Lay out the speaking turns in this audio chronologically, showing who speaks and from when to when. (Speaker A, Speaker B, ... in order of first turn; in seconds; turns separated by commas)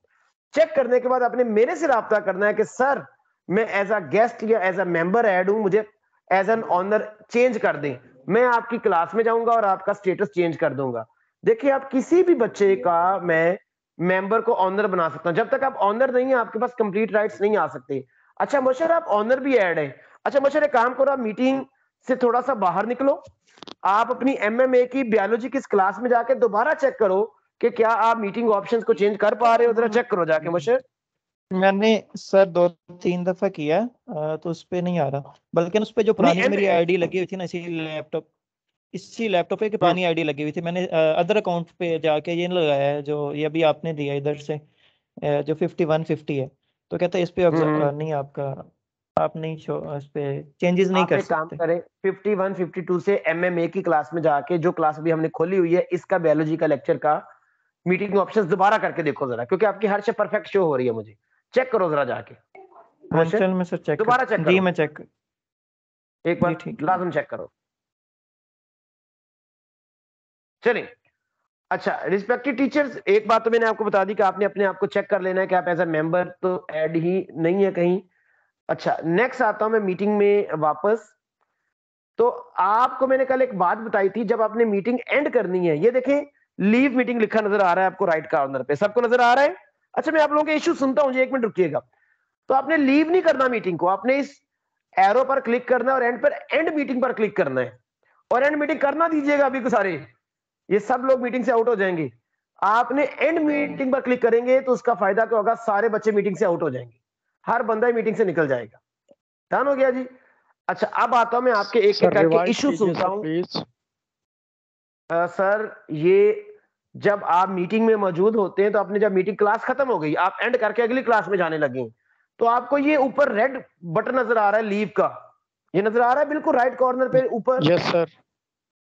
Speaker A: 0.5-23.2, Speaker A: 23.8-30.8, Speaker B: 31.5-38.2, Speaker A: 36.2-36.8, Speaker B: 38.9-44.6, Speaker B: 45.2-48.6, Speaker A: 47.5-47.9, Speaker B: 49.2-51.6, Speaker A: 50.9-57.2, Speaker A: 57.9-62.4, Speaker A: 63.1-63.4, Speaker B: 63.1-65.0, Speaker A: 64.0-64.6, Speaker A: 66.2-67.5, Speaker B: 66.4-67.0, Speaker A: 70.6-70.9, Speaker A: 71.7-78.0, Speaker A: 78.7-81.1, Speaker A: 82.2-91.8, Speaker A: 92.5-94.4, Speaker A: 95.0-97.7, Speaker A: 98.3-100.0, Speaker A: 100.7-102.1, Speaker A: 102.6-106.9, Speaker A: 107.5-108.8, Speaker A: 109.5-110.1, Speaker A: 110.7-113.3, Speaker C: 111.9-113.6, Speaker A: 115.1-125.1, Speaker A: 125.7-127.7, Speaker C: 127.6-128.1